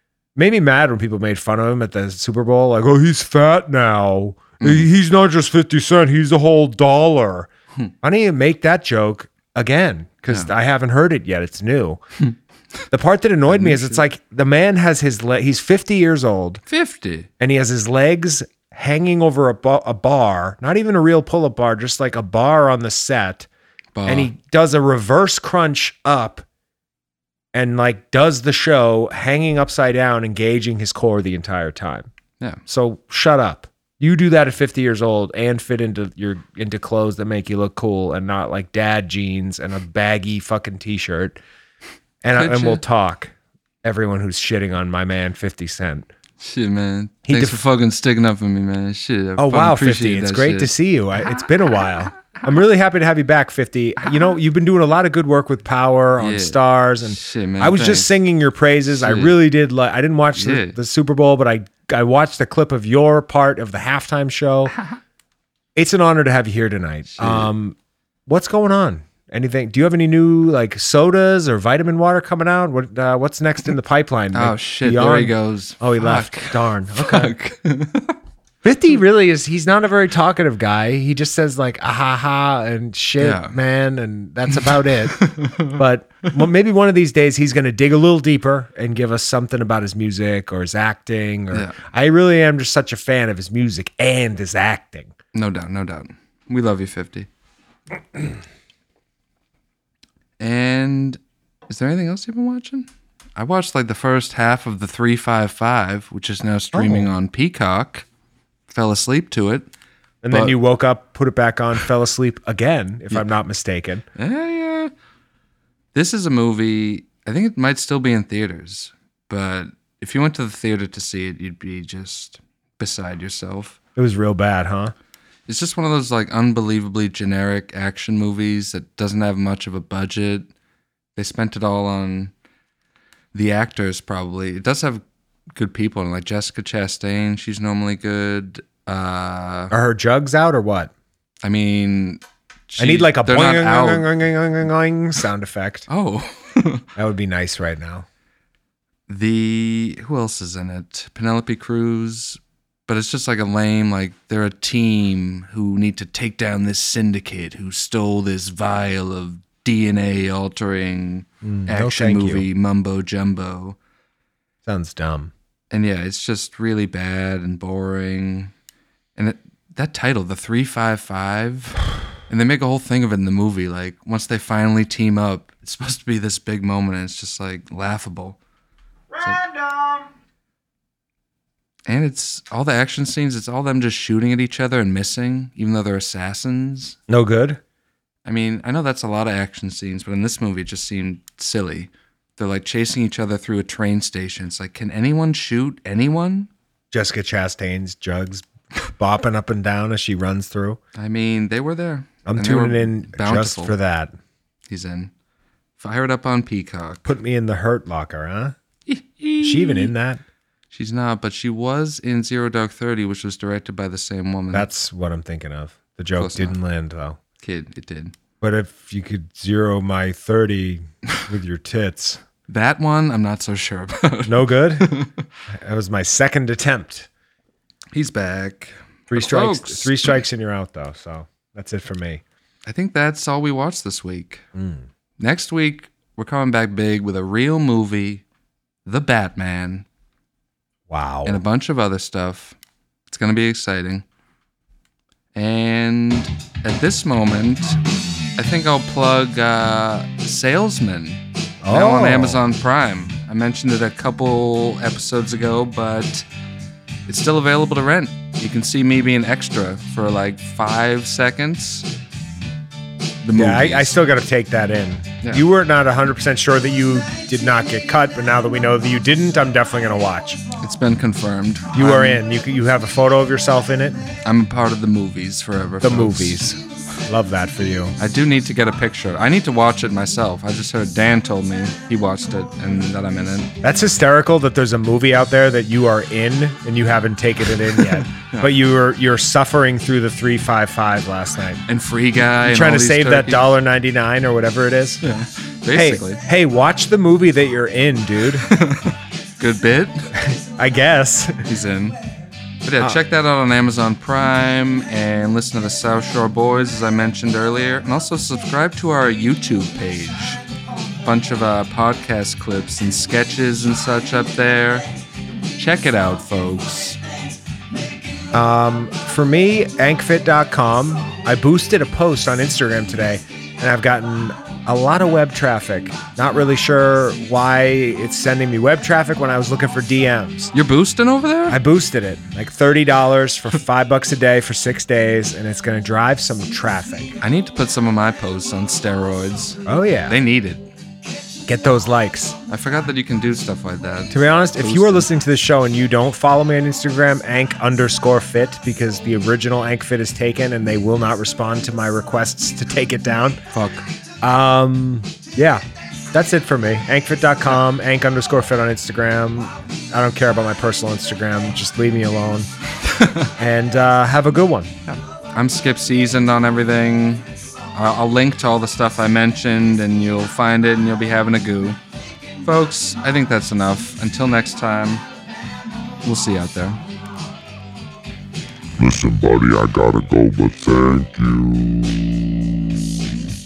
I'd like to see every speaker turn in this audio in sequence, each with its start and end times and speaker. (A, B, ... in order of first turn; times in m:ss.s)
0:00.4-0:07.5 A
0:08.0-0:12.0 A
0:12.9-0:16.6 A
0:13.5-0:14.0 B
0:16.7-0:17.3 B
0:17.4-0:23.5 A
0:24.0-0:24.3 B
0:24.1-0:26.4 A
0:27.5-0:32.1 A
0:32.7-0:41.4 A
0:42.2-0:46.1 A
0:42.3-0:42.8 B
0:46.4-0:50.7 B
0:47.3-0:47.6 A
0:49.4-1:04.7 A
0:56.2-0:58.1 B
0:58.9-0:59.4 B
1:00.4-1:00.8 B
1:05.8-1:17.3 A
1:07.1-1:07.5 B
1:14.3-1:18.2 B
1:18.6-1:35.1 A
1:23.2-1:23.6 B
1:24.5-1:26.3 B
1:31.5-1:31.8 B
1:35.3-1:37.3 B
1:40.4-1:48.0 B
1:46.7-1:47.1 A
1:48.7-1:49.7 B
1:50.2-1:54.0 A
1:50.3-1:50.6 B
1:54.2-1:54.9 B
1:55.9-2:03.8 B
2:04.0-2:04.9 A
2:05.5-2:10.5 B
2:11.2-2:12.3 B
2:13.3-2:15.0 B
2:15.6-2:19.7 B
2:19.7-2:20.9 A
2:21.4-2:24.1 B
2:22.8-2:25.9 A
2:25.9-2:26.9 B
2:27.0-2:28.1 A
2:29.1-2:43.8 B
2:41.4-2:42.5 A
2:44.6-2:45.3 A
2:45.7-2:48.5 B
2:49.2-2:58.4 B
3:01.9-3:07.0 B
3:07.1-3:07.6 A
3:08.2-3:16.5 B
3:16.9-3:20.8 A
3:21.0-3:23.7 B
3:22.3-3:24.2 A
3:24.7-3:25.1 B
3:25.8-3:27.1 B
3:27.0-3:28.6 A
3:28.9-3:29.9 B
3:29.4-3:30.2 A
3:30.7-3:34.7 B
3:34.5-3:37.2 A
3:36.2-3:36.6 B
3:37.4-3:38.1 B
3:38.4-3:42.2 A
3:42.5-3:45.2 B
3:44.3-3:44.9 A
3:45.5-3:47.1 A
3:47.9-3:50.2 B
3:49.1-3:52.2 A
3:52.7-3:54.4 B
3:54.6-3:54.9 A
3:55.2-3:58.2 B
3:58.9-3:59.9 B
4:00.9-4:01.4 A
4:01.2-4:02.6 B
4:03.1-4:04.0 B
4:05.4-4:07.8 B
4:08.4-4:16.3 B
4:11.6-4:12.4 A
4:17.1-4:21.9 B
4:23.2-4:23.9 B
4:23.3-4:30.4 A
4:30.6-4:32.2 B
4:31.7-4:34.1 A
4:34.2-4:36.5 B
4:35.8-4:38.0 A
4:38.0-4:43.5 B
4:43.6-4:51.6 A
4:48.1-4:48.5 B
4:51.7-4:53.5 B
4:52.4-4:55.0 A
4:55.0-4:56.2 B
4:55.7-4:58.5 A
4:58.4-5:00.1 B
5:00.1-5:01.5 A
5:01.5-5:02.0 B
5:02.6-5:10.4 B
5:11.0-5:14.8 B
5:15.6-5:17.0 B
5:18.3-5:30.5 A
5:30.5-5:31.6 B
5:31.5-5:37.2 A
5:37.2-5:40.6 B
5:39.7-5:40.2 A
5:41.4-5:42.4 A
5:42.5-5:45.1 B
5:44.1-5:53.4 A
5:53.5-5:53.9 B
5:54.2-6:02.5 A
6:02.8-6:03.3 B
6:03.4-6:04.7 A
6:04.9-6:11.8 B
6:12.4-6:15.0 B
6:16.0-6:16.8 B
6:18.8-6:22.4 C